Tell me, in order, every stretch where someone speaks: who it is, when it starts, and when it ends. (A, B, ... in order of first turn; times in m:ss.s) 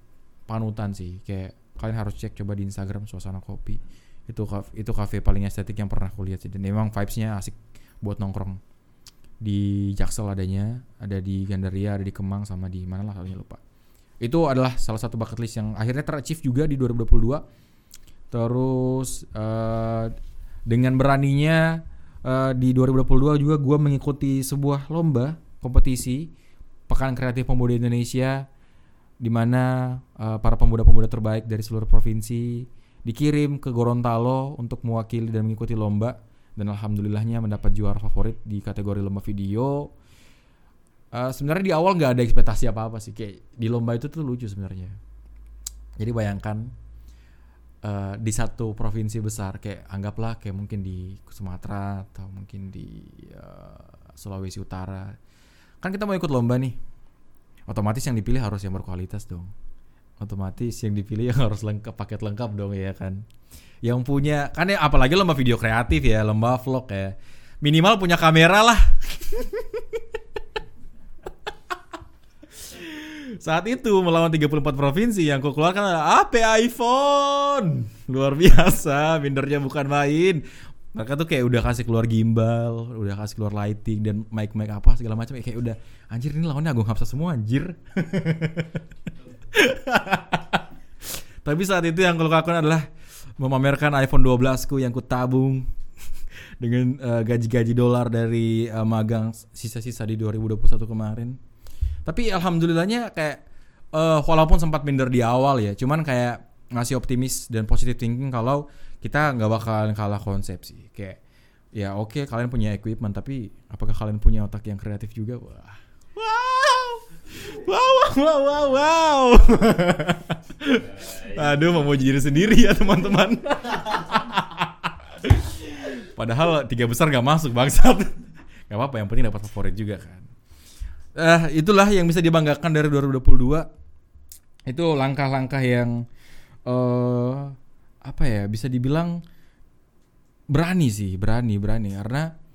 0:00.5-0:08.6 A
0:09.4-0:13.6 A
0:14.2-0:17.4 A
0:18.3-0:20.2 A
0:20.7-0:26.3 A
0:26.9-0:28.4 A
0:29.2-0:39.9 A
0:41.1-0:45.0 A
0:46.0-0:46.7 A
0:47.8-0:55.2 A
0:55.8-0:56.8 A
0:57.7-0:59.5 A
1:00.2-1:03.2 A
1:03.8-1:10.0 A
1:12.6-1:28.8 A
1:29.5-1:30.6 A
1:31.4-1:32.9 A
1:33.4-1:35.7 A
1:36.6-1:41.4 A
1:42.0-1:43.4 A
1:43.9-1:51.2 A
1:51.7-2:10.3 A
2:11.2-2:13.7 A
2:14.7-2:16.0 A
2:16.6-2:19.2 A
2:20.5-2:22.3 A